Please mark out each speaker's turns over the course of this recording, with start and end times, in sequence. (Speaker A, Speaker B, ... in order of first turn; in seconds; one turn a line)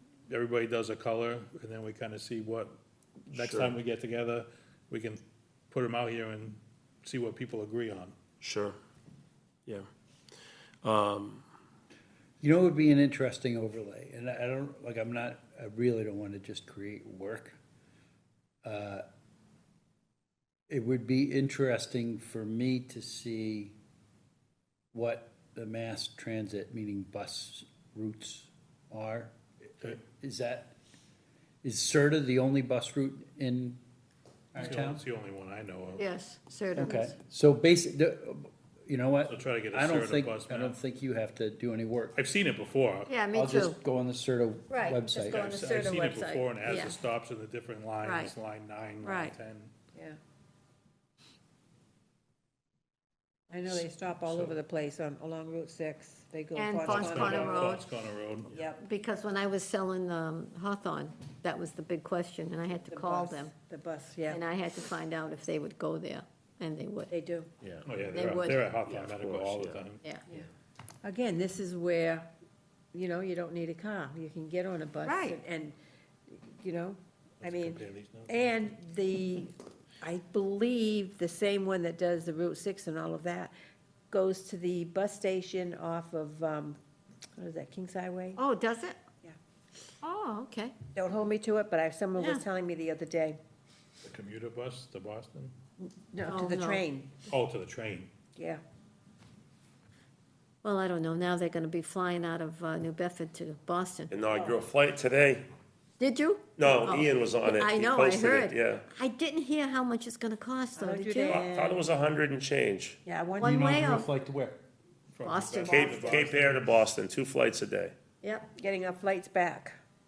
Speaker A: 0.3-2.8
Speaker A: 3.3-8.1
Speaker B: 3.3-3.8
Speaker B: 8.4-8.8
Speaker B: 10.8-11.4
Speaker C: 12.4-17.6
Speaker C: 18.6-19.0
Speaker C: 20.7-23.7
Speaker C: 24.9-30.8
Speaker C: 31.6-33.8
Speaker C: 34.5-35.0
Speaker A: 34.6-36.0
Speaker D: 36.0-37.1
Speaker C: 36.8-42.1
Speaker A: 39.2-40.8
Speaker A: 42.1-43.1
Speaker D: 43.1-43.8
Speaker C: 43.3-45.6
Speaker D: 44.7-47.0
Speaker A: 45.3-49.7
Speaker E: 48.0-48.3
Speaker E: 49.0-49.3
Speaker E: 53.5-57.8
Speaker D: 56.5-57.8
Speaker A: 56.9-58.6
Speaker E: 58.5-58.8
Speaker D: 58.7-63.5
Speaker E: 62.8-64.4
Speaker D: 64.3-67.1
Speaker E: 67.1-67.5
Speaker B: 67.6-69.9
Speaker A: 67.8-70.0
Speaker D: 68.1-68.7
Speaker E: 71.0-72.3
Speaker E: 72.9-75.7
Speaker D: 75.0-75.4
Speaker E: 76.3-83.5
Speaker A: 77.4-78.5
Speaker E: 84.1-86.8
Speaker E: 87.3-88.4
Speaker D: 88.4-89.0
Speaker D: 90.0-90.8
Speaker E: 90.9-93.4
Speaker D: 92.2-92.4
Speaker A: 94.0-95.5
Speaker E: 95.8-97.1
Speaker D: 96.3-96.8
Speaker A: 97.3-98.1
Speaker E: 98.3-98.6
Speaker D: 100.6-104.1
Speaker B: 104.1-105.5
Speaker E: 104.3-104.6
Speaker D: 106.0-111.4
Speaker B: 106.5-108.8
Speaker E: 110.8-111.9
Speaker B: 111.3-113.0
Speaker E: 113.0-113.8
Speaker D: 113.4-114.1
Speaker C: 113.4-114.6
Speaker A: 115.1-116.7
Speaker D: 115.2-116.2
Speaker B: 115.7-117.9
Speaker D: 118.2-118.5
Speaker E: 118.5-119.7